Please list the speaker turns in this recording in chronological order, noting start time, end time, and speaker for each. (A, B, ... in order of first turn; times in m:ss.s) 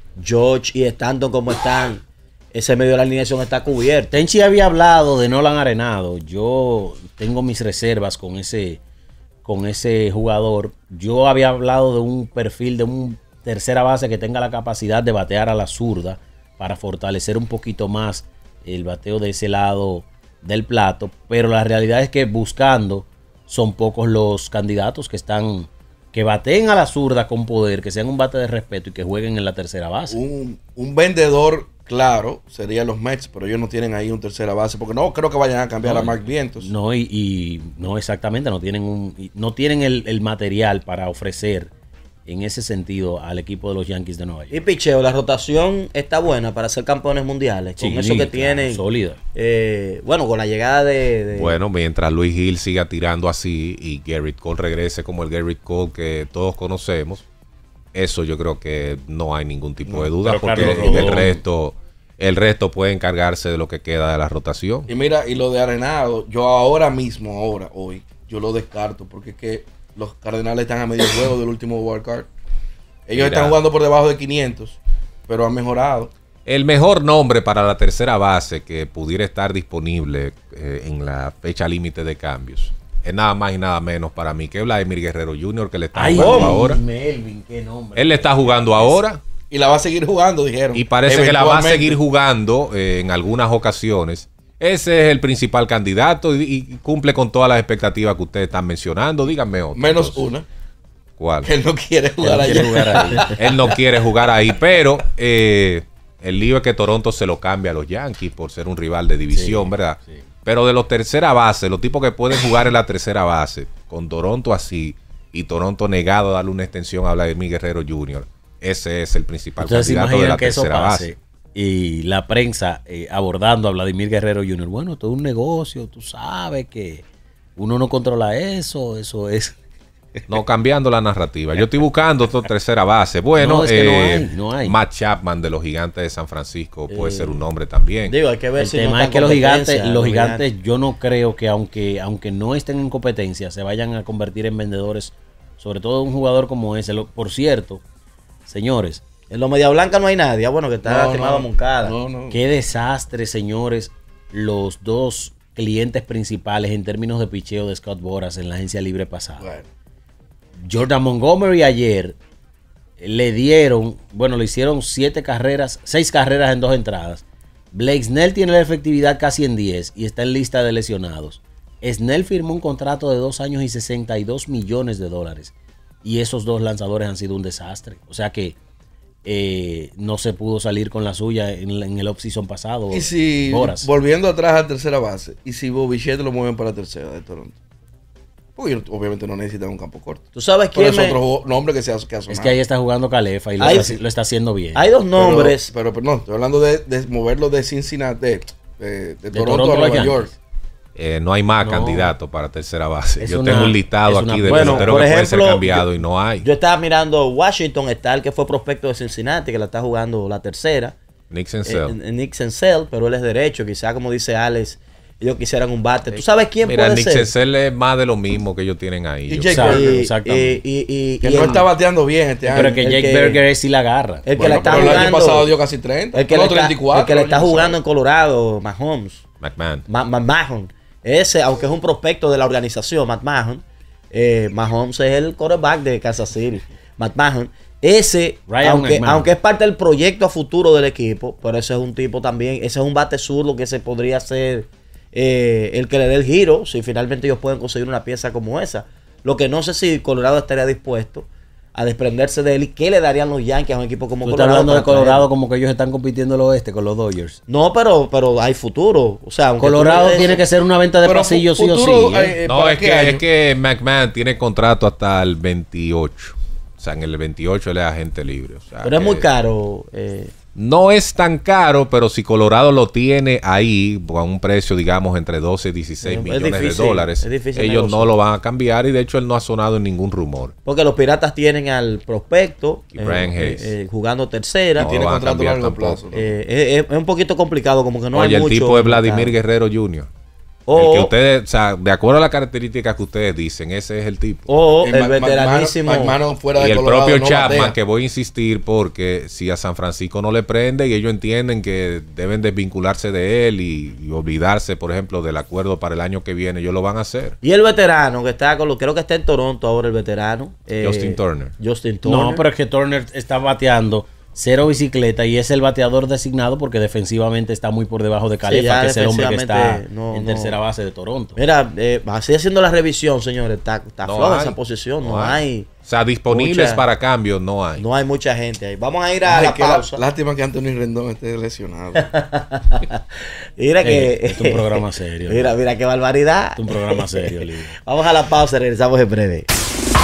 0:00.2-0:04.1 A
0:04.1-0:08.8 B
0:09.4-0:30.2 B
0:30.1-0:36.7 C
0:35.8-0:41.7 B
0:42.2-0:44.6 B
0:44.5-0:48.8 A
0:47.8-0:49.2 B
0:49.3-0:51.6 A
0:51.3-0:57.2 D
0:57.9-1:04.9 D
0:59.9-1:01.4 B
1:00.6-1:00.9 C
1:04.9-1:12.3 C
1:13.1-1:16.1 C
1:13.1-1:13.6 D
1:16.4-1:26.8 D
1:25.9-1:29.0 B
1:26.1-1:26.6 A
1:28.0-1:29.2 D
1:29.5-1:32.0 C
1:30.7-1:40.2 D
1:39.7-1:40.4 C
1:41.2-1:41.5 D
1:41.4-1:43.7 C
1:42.2-1:43.3 B
1:43.2-2:01.1 D
1:49.3-1:50.2 B
1:59.6-2:07.0 B
2:07.6-2:09.6 B
2:10.3-2:18.2 D
2:13.4-2:14.8 B
2:16.9-2:17.4 A
2:18.0-2:20.4 A
2:18.6-2:27.8 B
2:28.4-2:29.0 B
2:29.3-2:31.9 A
2:30.8-2:32.4 C
2:32.3-2:39.4 B
2:39.4-2:39.7 C
2:40.6-2:42.2 B
2:43.0-2:55.5 B
2:56.0-2:58.6 B
2:59.2-3:03.9 B
3:02.9-3:07.6 C
3:08.6-3:12.6 C
3:10.3-3:11.2 A
3:12.3-3:14.8 B
3:13.6-3:14.0 A
3:13.6-3:14.0 C
3:14.7-3:15.7 A
3:15.1-3:20.3 C
3:19.3-3:20.4 B
3:20.9-3:26.5 D
3:21.6-3:22.1 B
3:23.2-3:25.0 B
3:24.5-3:25.9 A
3:26.4-3:31.0 A
3:31.3-3:31.9 D
3:31.6-3:37.3 A
3:36.6-3:39.7 D
3:39.3-3:40.0 C
3:39.5-3:40.6 B
3:39.6-3:41.6 A
3:41.2-3:42.8 C
3:42.5-3:43.4 A
3:42.5-3:44.9 B
3:44.2-3:45.5 A
3:44.4-3:47.8 C
3:46.1-3:49.2 A
3:49.4-3:49.8 D
3:49.9-4:15.3 A
3:58.5-3:59.3 B
4:14.2-4:17.4 B
4:17.5-4:20.4 A
4:19.6-4:22.3 B
4:20.1-4:20.4 C
4:21.0-4:23.2 C
4:22.4-4:29.3 D
4:28.8-4:30.3 A
4:30.5-4:40.5 D
4:36.0-4:38.2 A
4:40.6-4:44.9 A
4:42.9-4:43.7 D
4:44.8-4:46.0 D
4:44.8-4:46.3 C
4:46.1-4:49.4 A
4:48.1-4:50.1 D
4:50.7-4:51.1 A
4:50.7-4:54.5 D
4:54.5-4:56.2 A
4:54.8-4:57.7 C
4:56.5-5:07.4 D
5:07.4-5:12.4 A
5:10.8-5:11.6 D
5:12.0-5:21.4 B
5:18.4-5:20.6 A
5:21.4-5:25.7 A
5:24.0-5:27.8 D
5:26.3-5:26.8 A
5:27.8-5:30.0 A
5:29.2-5:32.1 C
5:32.0-5:33.0 A
5:33.6-5:39.5 A
5:33.8-5:35.5 B
5:36.6-5:37.7 B